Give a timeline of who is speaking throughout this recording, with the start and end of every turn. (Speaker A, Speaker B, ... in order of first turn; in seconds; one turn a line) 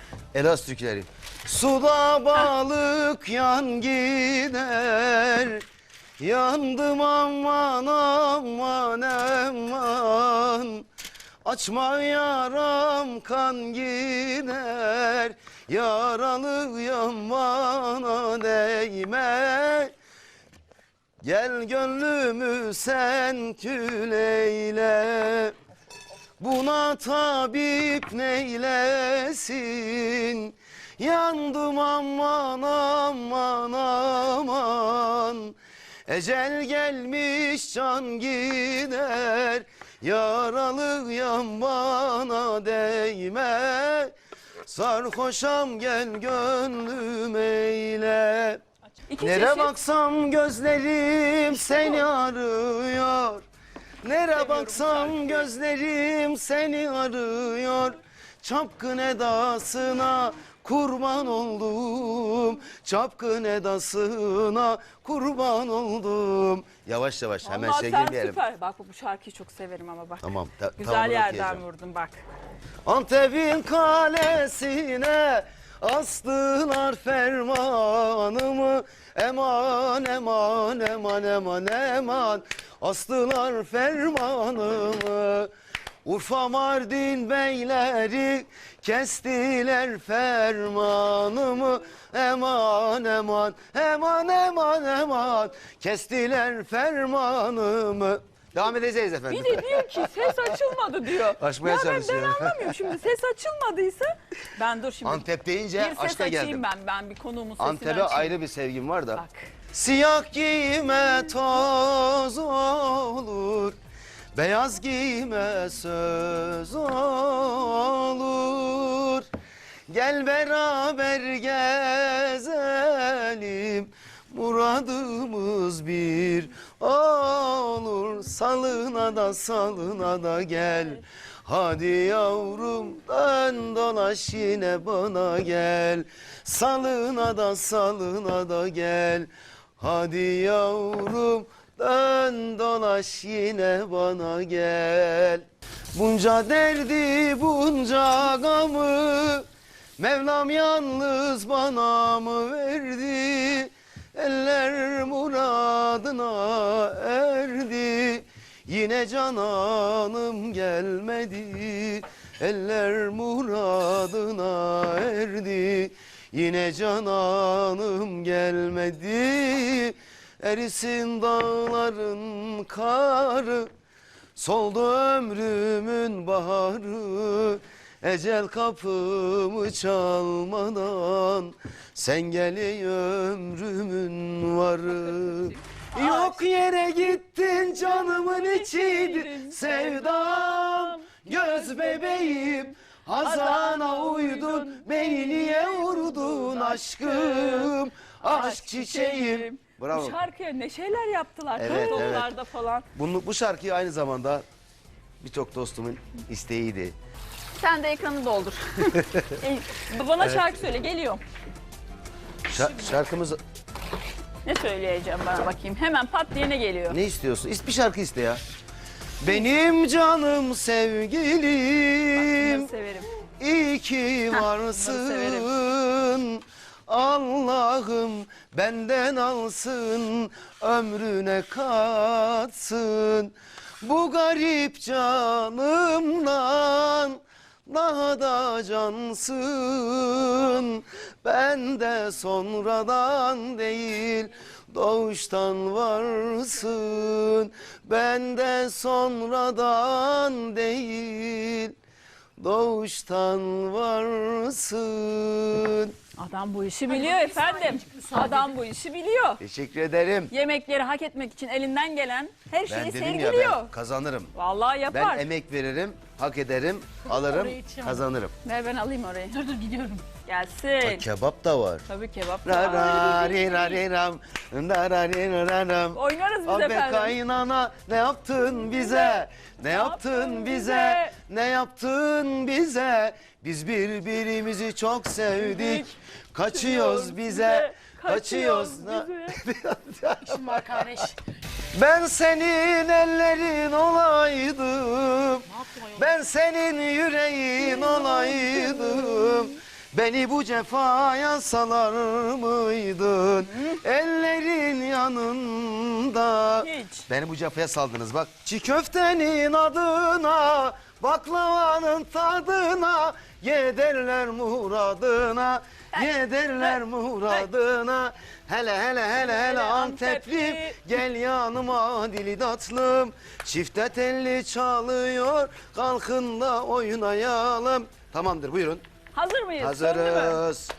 Speaker A: 0.3-5.6
Speaker A: 6.2-10.8
Speaker A: 11.4-19.9
Speaker A: 21.2-25.5
Speaker A: 26.4-35.5
Speaker A: 36.1-44.1
Speaker A: 44.7-48.6
Speaker B: 49.1-49.7
Speaker A: 49.2-53.4
Speaker B: 51.6-52.0
Speaker A: 54.0-68.4
Speaker B: 54.4-55.4
Speaker B: 67.5-72.2
Speaker A: 70.2-71.6
Speaker A: 72.8-85.5
Speaker A: 86.0-100.5
Speaker B: 99.3-105.2
Speaker A: 101.4-102.9
Speaker A: 105.0-106.6
Speaker B: 105.8-108.4
Speaker A: 107.6-113.8
Speaker B: 109.2-109.5
Speaker A: 114.3-119.3
Speaker A: 119.9-139.3
Speaker A: 139.8-145.4
Speaker A: 145.9-149.5
Speaker A: 150.0-173.7
Speaker A: 174.4-200.2
Speaker B: 185.1-186.4
Speaker B: 187.8-192.6
Speaker B: 193.2-202.9
Speaker A: 201.6-202.3
Speaker A: 203.0-204.4
Speaker A: 205.2-206.9
Speaker B: 207.6-211.2
Speaker A: 208.8-209.3
Speaker A: 212.5-213.4
Speaker B: 214.4-217.0
Speaker A: 216.9-218.4
Speaker A: 219.2-222.7
Speaker B: 222.1-223.1
Speaker A: 223.4-251.7
Speaker B: 224.3-225.5
Speaker A: 252.4-255.9
Speaker B: 256.2-259.4
Speaker C: 257.0-258.4
Speaker A: 259.4-260.3
Speaker B: 260.3-263.7
Speaker A: 262.7-264.3
Speaker B: 264.3-265.2
Speaker A: 264.9-268.3
Speaker C: 267.3-268.0
Speaker B: 268.4-269.6
Speaker C: 269.5-270.0
Speaker B: 270.1-271.0
Speaker A: 270.8-271.8
Speaker B: 271.9-273.8
Speaker A: 272.4-291.1
Speaker B: 275.9-277.2
Speaker B: 278.8-281.1
Speaker B: 285.4-285.9
Speaker B: 286.5-289.4
Speaker C: 290.3-291.1
Speaker A: 291.7-328.8
Speaker B: 297.6-299.5
Speaker B: 306.6-307.1
Speaker B: 315.9-316.8
Speaker B: 319.1-320.8
Speaker B: 329.1-330.4
Speaker A: 329.6-330.7